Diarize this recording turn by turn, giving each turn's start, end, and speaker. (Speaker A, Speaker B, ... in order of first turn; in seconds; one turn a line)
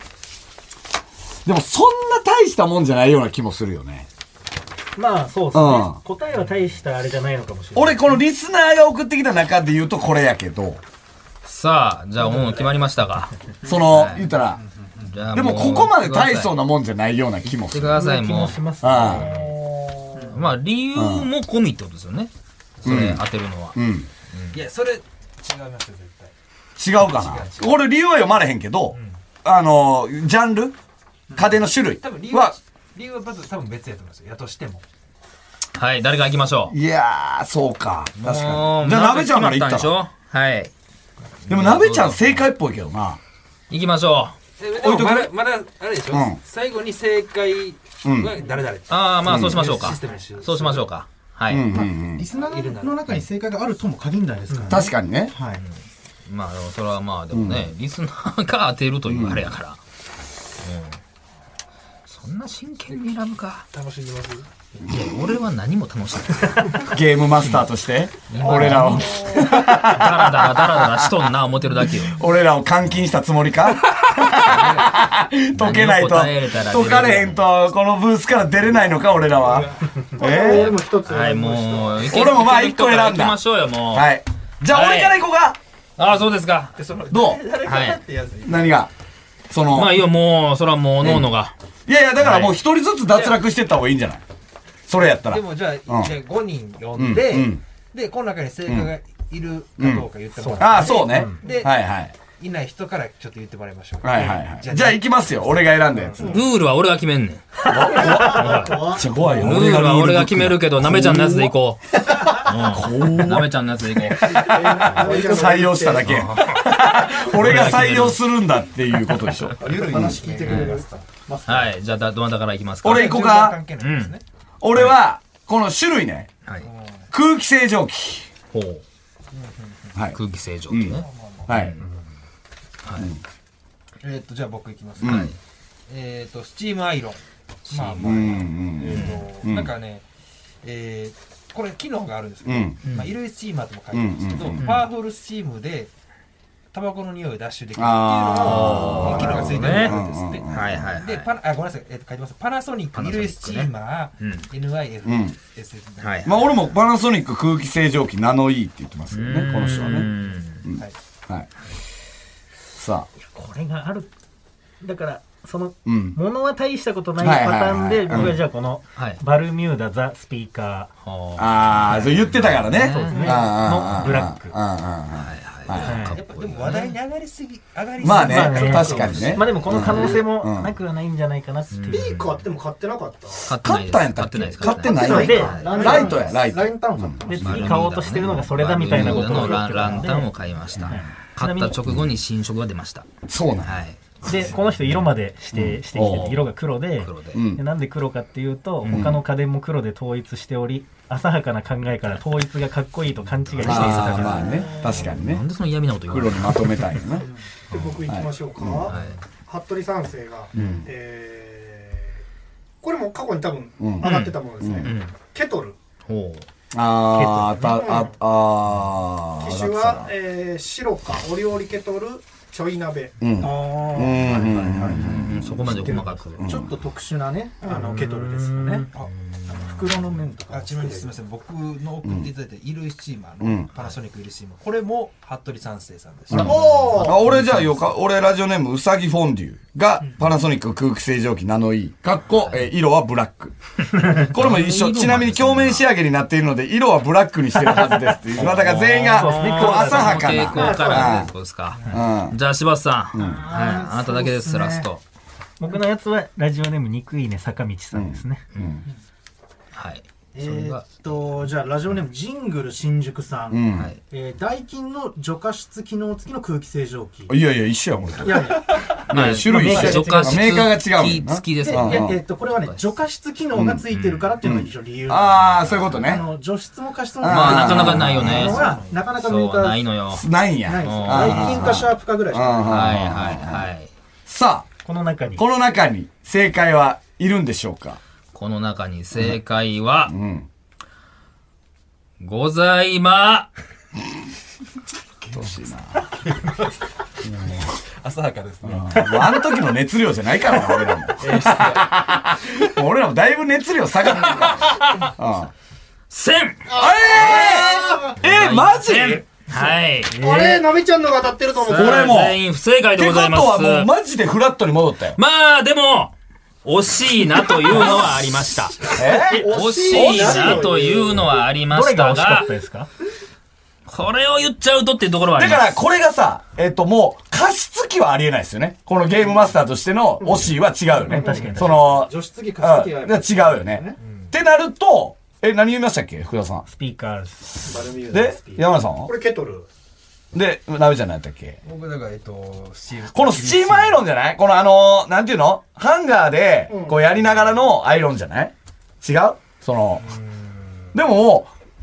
Speaker A: 1.4-4.1
Speaker B: 5.0-8.2
Speaker A: 5.5-6.0
Speaker A: 7.8-10.8
Speaker C: 11.4-13.3
Speaker A: 13.6-14.6
Speaker C: 13.9-14.3
Speaker C: 15.1-16.6
Speaker A: 15.3-18.0
Speaker C: 17.5-19.6
Speaker B: 17.9-19.4
Speaker A: 18.8-19.3
Speaker C: 20.3-22.3
Speaker A: 20.9-21.3
Speaker C: 22.8-23.8
Speaker A: 22.8-23.2
Speaker A: 23.8-24.1
Speaker C: 24.3-24.6
Speaker D: 24.5-26.3
Speaker A: 26.8-30.8
Speaker D: 27.0-27.9
Speaker D: 28.9-29.2
Speaker D: 31.3-34.9
Speaker A: 31.4-32.6
Speaker C: 35.8-36.8
Speaker A: 36.7-39.9
Speaker C: 38.2-40.7
Speaker C: 41.5-42.5
Speaker A: 41.5-43.2
Speaker C: 43.7-44.4
Speaker D: 44.6-50.9
Speaker A: 44.8-45.3
Speaker A: 46.1-46.4
Speaker A: 48.0-48.4
Speaker C: 48.9-51.7
Speaker A: 49.2-49.7
Speaker A: 51.5-52.3
Speaker E: 51.7-55.6
Speaker D: 52.3-53.2
Speaker B: 54.5-54.8
Speaker A: 54.7-55.3
Speaker C: 55.5-59.8
Speaker A: 57.3-57.7
Speaker A: 59.1-59.5
Speaker C: 60.6-61.0
Speaker C: 62.1-63.7
Speaker D: 62.9-63.2
Speaker D: 63.7-64.5
Speaker C: 64.9-67.7
Speaker A: 66.9-71.3
Speaker C: 68.3-72.2
Speaker E: 68.4-69.5
Speaker D: 68.6-69.0
Speaker A: 72.0-80.8
Speaker D: 74.4-74.9
Speaker C: 75.5-77.5
Speaker D: 79.4-79.9
Speaker E: 80.1-82.1
Speaker C: 80.4-84.1
Speaker A: 82.1-83.4
Speaker A: 83.9-85.6
Speaker C: 84.7-85.2
Speaker C: 86.0-86.8
Speaker D: 86.8-88.9
Speaker A: 87.1-87.5
Speaker C: 87.6-88.0
Speaker A: 88.5-88.9
Speaker A: 89.5-90.0
Speaker C: 89.7-91.5
Speaker A: 91.0-91.3
Speaker A: 91.9-94.2
Speaker C: 92.2-92.6
Speaker D: 93.1-93.4
Speaker A: 94.9-96.1
Speaker D: 95.1-101.8
Speaker A: 97.0-97.6
Speaker A: 98.7-98.9
Speaker A: 99.8-102.1
Speaker B: 100.4-101.4
Speaker D: 102.4-106.2
Speaker A: 104.0-106.4
Speaker E: 106.2-106.5
Speaker C: 106.3-114.5
Speaker A: 107.7-111.5
Speaker E: 107.8-109.6
Speaker A: 112.5-120.1
Speaker E: 114.2-116.1
Speaker D: 115.0-115.3
Speaker C: 116.0-118.2
Speaker D: 119.5-121.1
Speaker E: 119.6-121.7
Speaker C: 120.5-120.7
Speaker C: 121.5-123.2
Speaker A: 122.8-123.6
Speaker D: 122.8-124.2
Speaker C: 123.8-124.1
Speaker A: 124.6-126.3
Speaker D: 126.6-127.1
Speaker A: 127.1-128.3
Speaker C: 128.5-128.8
Speaker D: 129.3-129.9
Speaker C: 130.1-131.8
Speaker A: 130.7-131.8
Speaker D: 130.9-131.7
Speaker C: 132.8-133.1
Speaker A: 133.0-133.2
Speaker D: 134.0-135.3
Speaker A: 135.0-135.3
Speaker C: 135.0-135.4
Speaker D: 135.9-140.1
Speaker C: 137.7-139.1
Speaker A: 138.0-139.7
Speaker D: 140.6-145.9
Speaker A: 142.4-142.8
Speaker C: 142.8-143.1
Speaker A: 143.9-144.7
Speaker C: 144.6-144.9
Speaker D: 146.7-156.8
Speaker A: 147.8-150.9
Speaker C: 148.4-151.3
Speaker C: 152.9-154.5
Speaker A: 155.1-155.4
Speaker C: 156.0-156.3
Speaker A: 156.2-160.1
Speaker C: 159.1-160.7
Speaker A: 160.7-161.5
Speaker D: 160.7-161.0
Speaker A: 162.8-163.1
Speaker B: 163.2-164.1
Speaker B: 164.8-170.9
Speaker A: 165.8-166.2
Speaker A: 167.2-168.4
Speaker C: 168.1-168.4
Speaker C: 169.0-169.2
Speaker C: 171.0-173.4
Speaker A: 171.4-176.0
Speaker B: 172.9-174.6
Speaker C: 175.1-176.9
Speaker D: 175.7-180.2
Speaker B: 175.8-176.2
Speaker A: 178.0-180.7
Speaker B: 178.1-182.1
Speaker C: 178.8-179.4
Speaker C: 181.7-182.4
Speaker E: 181.9-183.5
Speaker C: 183.5-186.1
Speaker A: 183.5-187.7
Speaker E: 184.6-187.8
Speaker B: 184.9-186.1
Speaker B: 187.2-190.3
Speaker C: 187.4-193.1
Speaker A: 188.9-189.5
Speaker E: 189.3-190.0
Speaker B: 190.8-191.8
Speaker A: 193.3-193.8
Speaker C: 193.6-194.0
Speaker B: 194.2-204.6
Speaker A: 195.5-196.4
Speaker C: 196.0-197.4
Speaker A: 197.3-197.6
Speaker C: 198.8-199.1
Speaker A: 198.9-199.2
Speaker C: 203.5-207.1
Speaker A: 203.6-205.4
Speaker A: 206.1-207.3
Speaker E: 207.2-212.2
Speaker C: 207.7-208.0
Speaker A: 208.1-209.0
Speaker C: 208.9-209.2
Speaker A: 210.6-210.9
Speaker E: 212.8-215.8
Speaker A: 213.8-214.9
Speaker C: 214.0-215.1
Speaker C: 216.1-216.5
Speaker A: 216.7-220.1
Speaker B: 217.2-217.8
Speaker E: 217.6-218.2
Speaker E: 219.4-228.9
Speaker A: 223.2-226.7
Speaker D: 223.6-224.2
Speaker C: 224.8-226.5
Speaker B: 227.7-228.9
Speaker C: 229.3-230.0
Speaker E: 229.5-231.2
Speaker D: 230.5-236.9
Speaker A: 232.0-232.3
Speaker A: 233.4-233.7
Speaker A: 236.3-251.3
Speaker C: 236.3-237.5
Speaker E: 236.4-237.4
Speaker C: 242.4-242.7
Speaker C: 244.1-245.9
Speaker C: 248.4-255.0
Speaker B: 249.1-250.4
Speaker E: 250.5-251.3
Speaker A: 251.9-252.4
Speaker A: 253.1-253.5
Speaker E: 253.2-254.9
Speaker B: 255.6-258.4
Speaker A: 257.9-258.8
Speaker C: 259.7-261.2
Speaker E: 260.4-267.4
Speaker A: 263.5-263.9
Speaker A: 267.3-272.2
Speaker E: 268.2-269.1
Speaker C: 269.1-272.8
Speaker B: 269.4-270.3
Speaker E: 269.7-270.4
Speaker E: 271.6-279.9
Speaker A: 273.5-273.9
Speaker C: 273.9-274.4
Speaker A: 274.4-276.3
Speaker A: 277.2-278.6
Speaker C: 277.2-280.3
Speaker A: 280.1-283.7
Speaker E: 280.6-283.0
Speaker C: 280.8-281.9
Speaker C: 282.7-283.9
Speaker A: 284.3-284.7
Speaker B: 284.9-285.4
Speaker A: 285.4-288.0
Speaker C: 288.3-290.1
Speaker A: 290.1-290.5
Speaker C: 292.2-293.5
Speaker D: 295.2-295.8
Speaker A: 295.3-296.0
Speaker A: 297.2-297.6
Speaker D: 298.0-299.3
Speaker A: 298.6-305.5
Speaker D: 301.2-302.0
Speaker C: 304.6-305.1
Speaker C: 306.1-306.7
Speaker E: 306.7-308.2
Speaker A: 306.7-309.2
Speaker C: 308.2-310.2
Speaker E: 310.1-312.2
Speaker B: 310.1-310.6
Speaker C: 311.6-313.9
Speaker A: 311.7-312.4
Speaker A: 313.0-315.2
Speaker C: 315.2-316.1
Speaker C: 316.6-322.5
Speaker A: 317.7-318.0
Speaker E: 317.8-318.0
Speaker E: 318.9-321.4
Speaker A: 318.9-320.8
Speaker B: 321.7-322.9
Speaker C: 323.9-325.8
Speaker A: 325.4-336.7
Speaker E: 330.2-334.0
Speaker B: 331.1-331.8
Speaker B: 336.7-337.8
Speaker E: 337.6-339.7
Speaker A: 338.1-339.1
Speaker A: 340.3-341.6
Speaker D: 341.6-344.1
Speaker A: 343.1-350.1
Speaker E: 346.7-347.1
Speaker A: 350.9-351.5